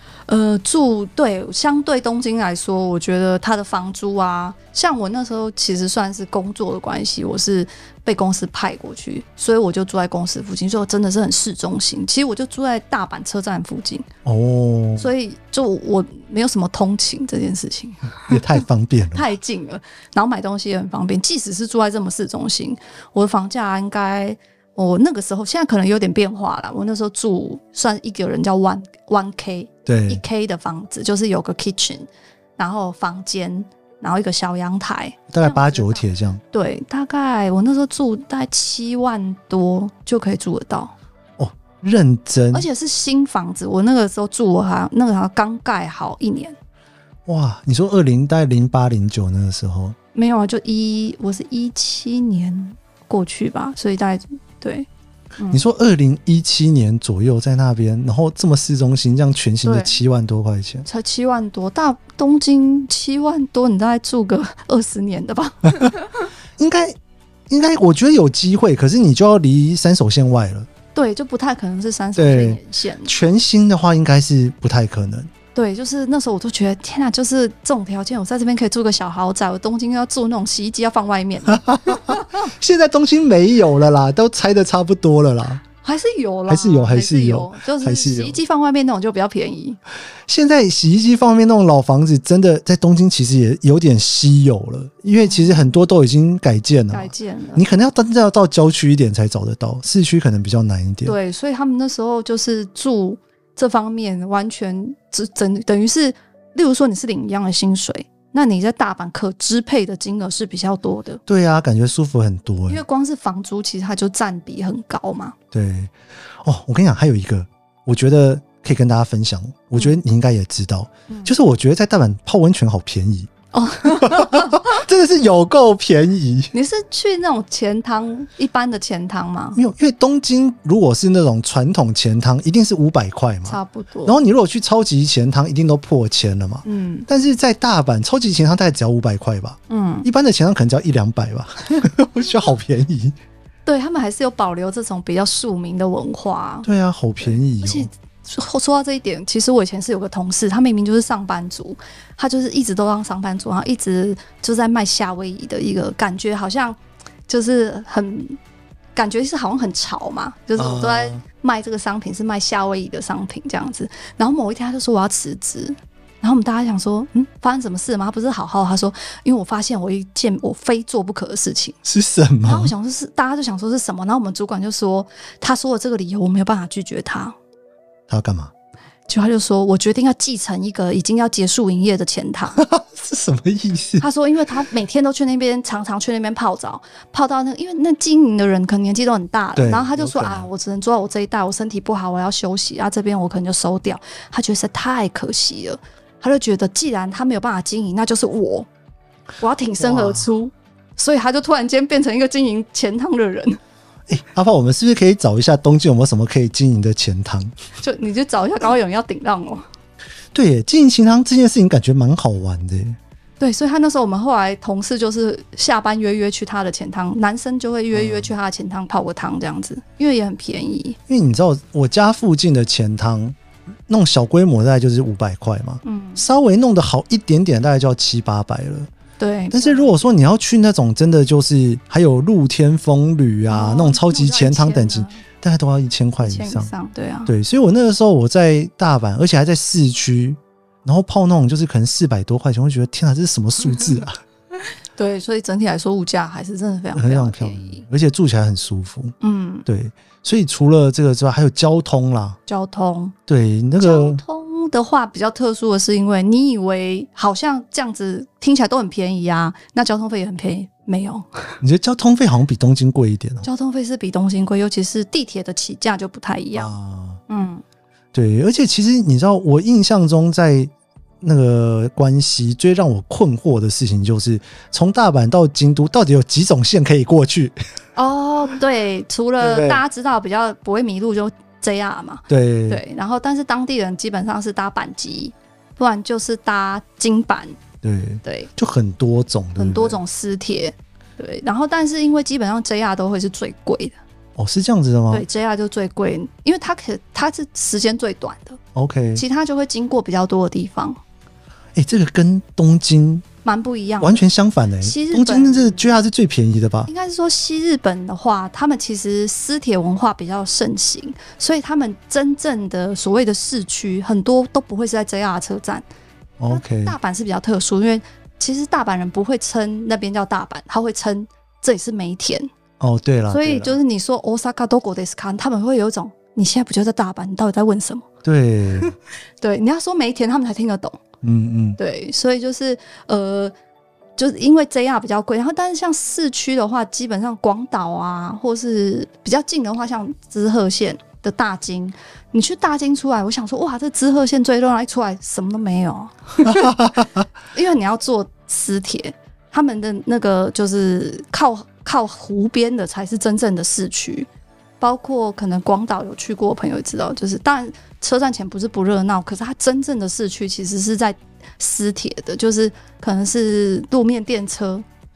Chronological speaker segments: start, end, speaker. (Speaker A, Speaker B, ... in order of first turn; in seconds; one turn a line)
Speaker A: 0.3-14.1
Speaker B: 14.2-15.1
Speaker A: 15.0-18.4
Speaker B: 18.3-19.3
Speaker A: 19.1-40.9
Speaker B: 29.9-30.2
Speaker B: 35.3-36.4
Speaker B: 41.4-42.7
Speaker A: 42.5-46.5
Speaker B: 47.2-50.0
Speaker A: 50.1-55.6
Speaker B: 55.5-60.9
Speaker A: 59.6-60.0
Speaker A: 60.9-66.3
Speaker B: 66.6-67.0
Speaker B: 67.5-70.7
Speaker A: 70.9-73.1
Speaker B: 72.2-75.3
Speaker A: 75.5-82.3
Speaker B: 81.5-85.6
Speaker A: 85.8-89.8
Speaker B: 86.5-88.4
Speaker B: 90.3-101.2
Speaker A: 95.2-95.8
Speaker A: 96.9-97.6
Speaker A: 101.0-111.2
Speaker B: 111.3-112.8
Speaker A: 112.7-115.3
Speaker B: 115.5-115.9
Speaker B: 116.4-123.3
Speaker A: 121.1-121.3
Speaker A: 123.5-124.8
Speaker B: 123.8-126.5
Speaker A: 126.5-129.6
Speaker B: 129.5-143.2
Speaker A: 133.4-134.2
Speaker A: 136.6-137.1
Speaker A: 139.7-140.1
Speaker A: 143.7-146.7
Speaker B: 146.6-147.9
Speaker A: 147.2-158.4
Speaker A: 158.9-171.8
Speaker B: 160.6-161.2
Speaker B: 171.8-172.7
Speaker A: 172.4-177.4
Speaker B: 178.1-178.5
Speaker A: 179.1-182.6
Speaker B: 182.6-184.1
Speaker A: 184.0-198.7
Speaker B: 189.6-190.5
Speaker A: 199.4-203.6
Speaker B: 199.8-200.3
Speaker B: 204.1-207.5
Speaker A: 207.8-209.6
Speaker B: 210.3-213.0
Speaker A: 213.4-221.0
Speaker B: 217.9-218.3
Speaker B: 221.1-223.4
Speaker B: 223.9-228.9
Speaker A: 225.8-226.2
Speaker A: 229.2-230.1
Speaker B: 229.5-236.7
Speaker A: 233.5-235.2
Speaker A: 236.2-237.3
Speaker B: 237.2-244.2
Speaker A: 244.9-247.8
Speaker B: 246.9-249.1
Speaker A: 249.2-249.7
Speaker B: 249.7-252.4
Speaker A: 252.5-253.1
Speaker B: 253.3-254.2
Speaker A: 253.8-261.5
Speaker B: 261.6-263.5
Speaker A: 263.4-266.7
Speaker B: 266.5-267.2
Speaker A: 267.3-267.6
Speaker B: 268.1-277.5
Speaker A: 277.9-287.6
Speaker B: 279.4-279.8
Speaker B: 282.3-282.8
Speaker B: 287.8-290.0
Speaker A: 288.2-288.5
Speaker A: 289.6-293.9
Speaker B: 294.4-295.2
Speaker A: 295.1-298.6
Speaker B: 298.7-299.2
Speaker A: 299.1-301.0
Speaker B: 301.8-303.2
Speaker A: 303.4-304.2
Speaker B: 304.0-306.9
Speaker A: 304.8-305.9
Speaker A: 306.9-315.9
Speaker B: 316.4-316.9
Speaker A: 316.5-322.5
Speaker B: 322.8-323.8
Speaker A: 323.3-328.1
Speaker B: 328.2-328.9
Speaker A: 329.4-331.0
Speaker B: 331.2-331.8
Speaker A: 331.8-333.5
Speaker A: 334.2-346.8
Speaker B: 346.4-347.2
Speaker A: 347.5-354.3
Speaker A: 354.8-364.9